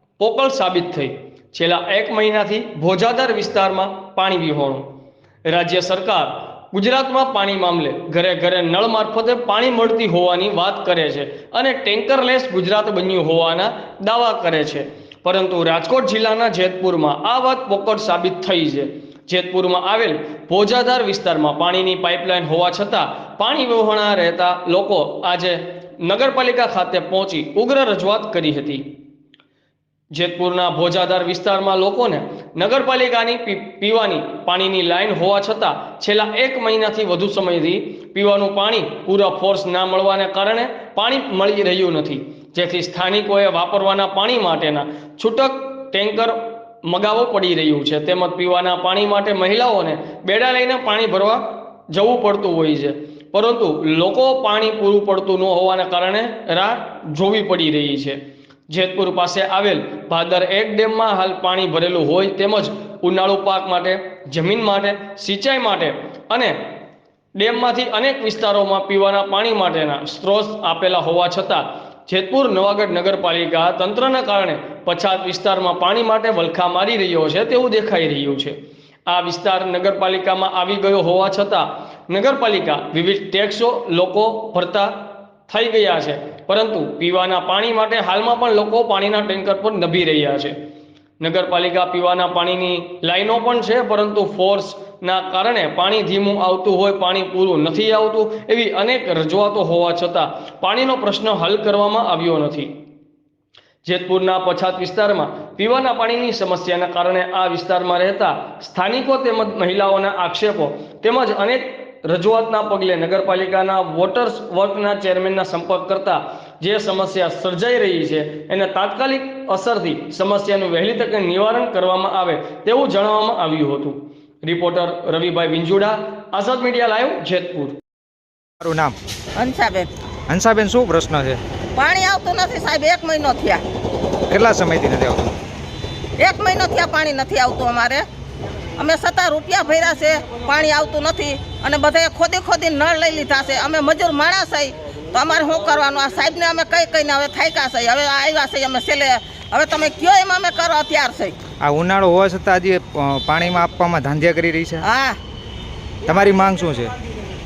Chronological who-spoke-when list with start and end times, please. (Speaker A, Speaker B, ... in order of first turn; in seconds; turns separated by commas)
Speaker A: 0.2-4.9, Speaker A: 5.5-28.9, Speaker A: 30.1-66.8, Speaker A: 67.3-90.6, Speaker A: 91.2-102.8, Speaker A: 103.8-127.8, Speaker B: 128.6-128.9, Speaker C: 129.3-129.9, Speaker B: 130.3-131.4, Speaker C: 131.8-133.6, Speaker B: 134.3-135.3, Speaker C: 136.2-138.0, Speaker C: 138.8-151.4, Speaker B: 151.6-154.8, Speaker C: 154.8-155.2, Speaker B: 156.1-156.9